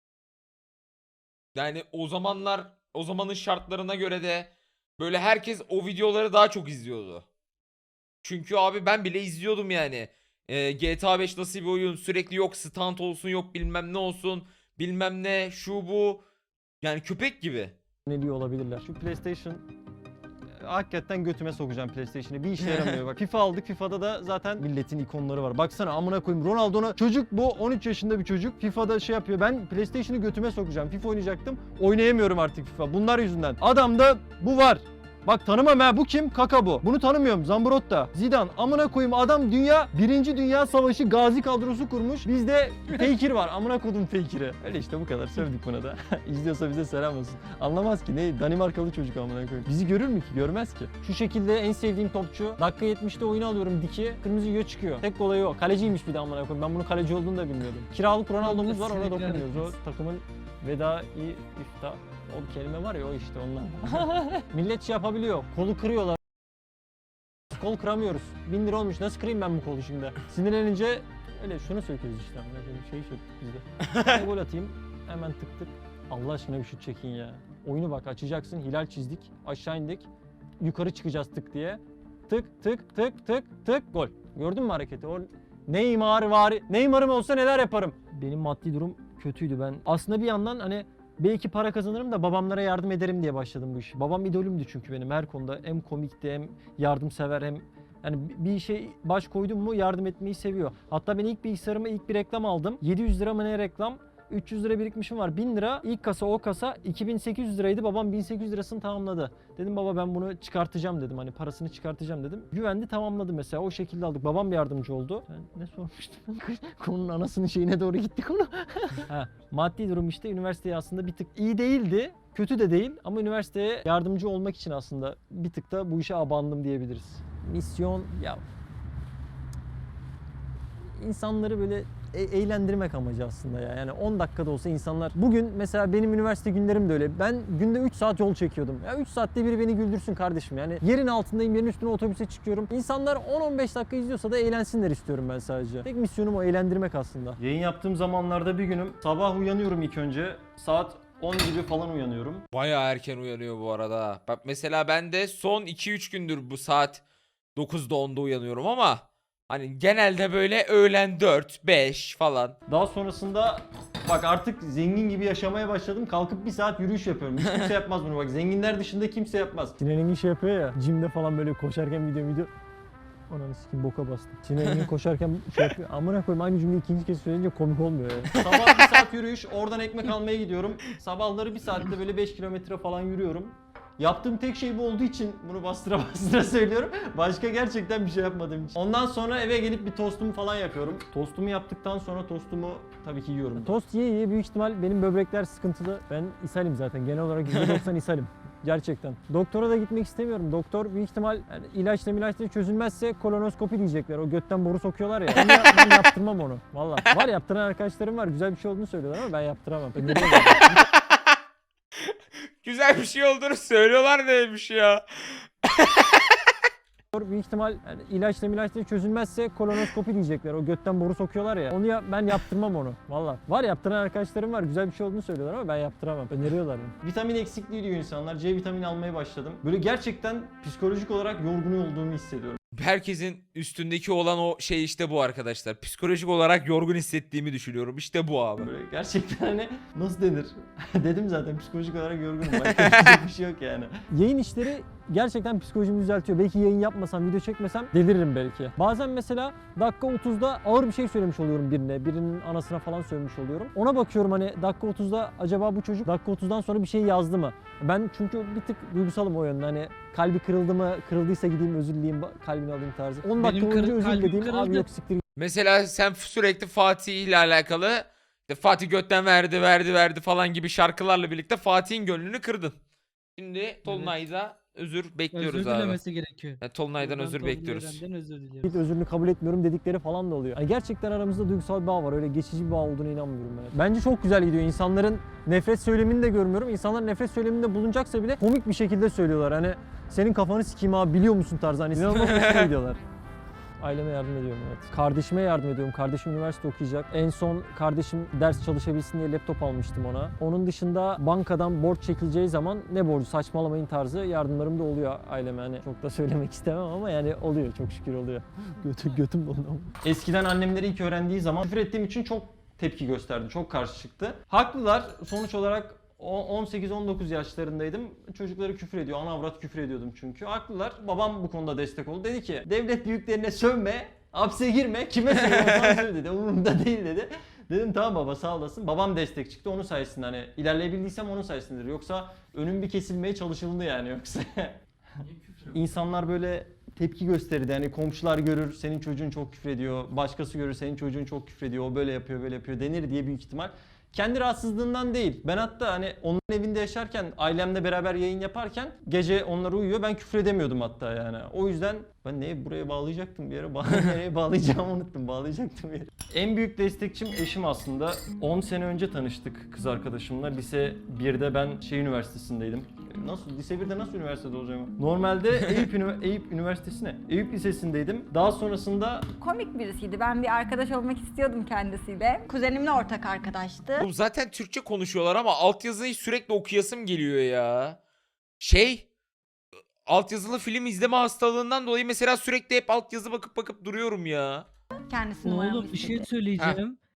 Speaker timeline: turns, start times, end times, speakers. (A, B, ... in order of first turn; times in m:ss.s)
0:01.5-0:07.2 A
0:08.2-0:16.2 A
0:16.8-0:17.8 A
0:18.0-0:19.6 B
0:20.6-1:06.2 B
0:58.4-0:59.7 C
1:07.5-1:20.1 B
1:20.6-2:08.4 B
2:10.9-2:32.4 B
2:32.5-2:37.0 A
2:37.6-2:42.6 A
2:42.7-2:52.5 B
2:53.3-3:30.9 B
3:30.1-3:31.4 A
3:32.0-3:36.5 A
3:37.1-3:52.6 B
3:52.7-3:58.7 A
3:58.6-4:25.2 B
4:02.6-4:03.2 A
4:23.3-4:24.9 C
4:25.4-4:32.8 A
4:33.4-4:36.0 A
4:33.8-4:34.2 C
4:35.3-4:38.8 C
4:36.6-4:38.0 A
4:38.6-4:53.0 B
4:52.0-4:52.7 A
4:53.8-5:34.8 B
5:35.7-6:09.3 B
6:09.4-6:14.1 D
6:14.0-6:18.0 A
6:18.6-6:19.1 A
6:20.0-6:24.6 A
6:25.1-6:26.3 D
6:25.4-6:27.0 C